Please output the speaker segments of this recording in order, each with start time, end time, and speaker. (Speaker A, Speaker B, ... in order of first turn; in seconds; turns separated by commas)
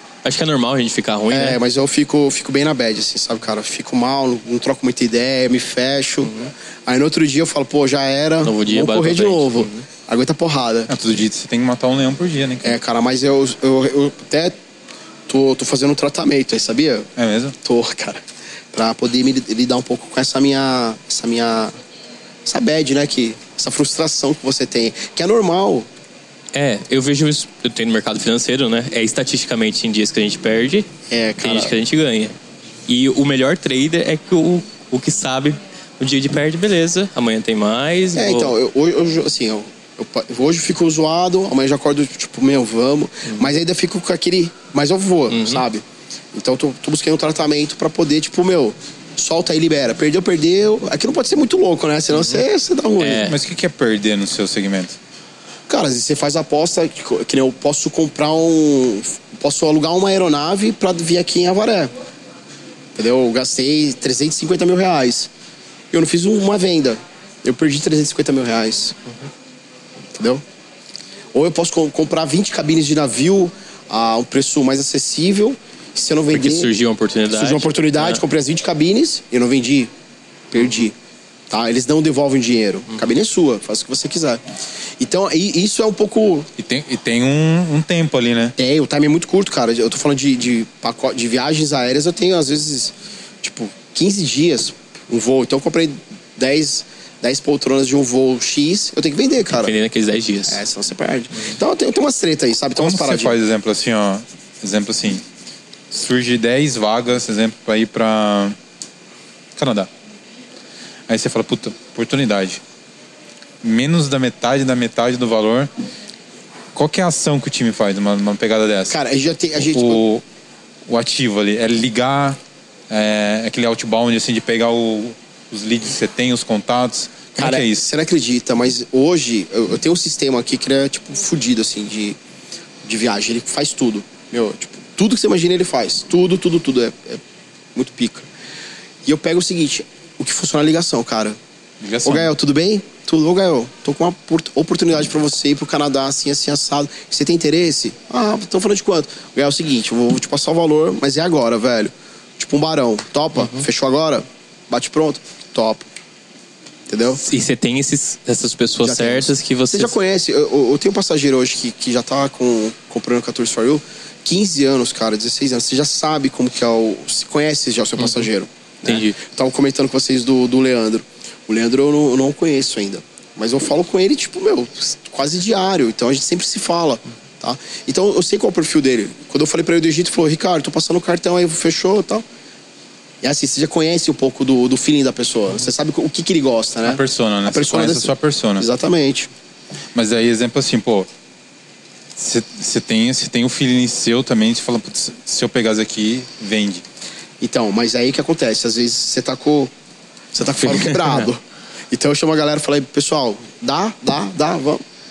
Speaker A: 0.2-1.6, Speaker B: 1.3-6.3, Speaker A: 6.2-6.5, Speaker B: 6.9-10.9, Speaker A: 8.4-9.9, Speaker C: 10.9-12.8, Speaker B: 12.6-14.6, Speaker B: 15.3-17.1, Speaker C: 17.2-17.6, Speaker B: 17.6-21.7, Speaker B: 22.5-25.9, Speaker A: 26.5-30.9, Speaker B: 31.1-31.7, Speaker A: 31.4-32.3, Speaker A: 32.9-38.5, Speaker B: 38.1-53.3, Speaker A: 45.3-45.6, Speaker A: 52.1-52.4, Speaker A: 53.0-53.4, Speaker C: 53.2-55.0, Speaker B: 55.7-61.9, Speaker B: 63.0-65.3, Speaker B: 65.9-69.0, Speaker B: 70.1-70.4, Speaker B: 71.3-76.7, Speaker A: 76.3-78.2, Speaker B: 77.3-79.9, Speaker B: 80.5-81.0, Speaker B: 81.5-84.4, Speaker B: 85.0-86.5, Speaker C: 86.6-88.6, Speaker B: 88.6-99.7, Speaker A: 99.5-100.6, Speaker B: 100.5-103.4, Speaker C: 102.8-105.2, Speaker C: 105.9-108.6, Speaker C: 109.6-109.9, Speaker C: 111.1-112.6, Speaker C: 113.6-115.7, Speaker C: 116.7-119.0, Speaker B: 118.9-120.0, Speaker C: 119.6-120.2, Speaker C: 120.9-127.9, Speaker B: 127.4-132.2, Speaker B: 132.8-137.2, Speaker B: 137.8-138.3, Speaker B: 139.1-141.4, Speaker C: 141.8-142.3, Speaker B: 142.0-155.9, Speaker B: 156.9-157.2, Speaker A: 157.2-159.9, Speaker B: 158.8-182.2, Speaker A: 168.0-168.2, Speaker A: 168.8-169.2, Speaker B: 183.2-189.3, Speaker C: 186.9-188.7, Speaker C: 189.9-191.1, Speaker C: 192.2-196.8, Speaker B: 197.4-199.7, Speaker B: 200.3-204.8, Speaker A: 200.7-201.2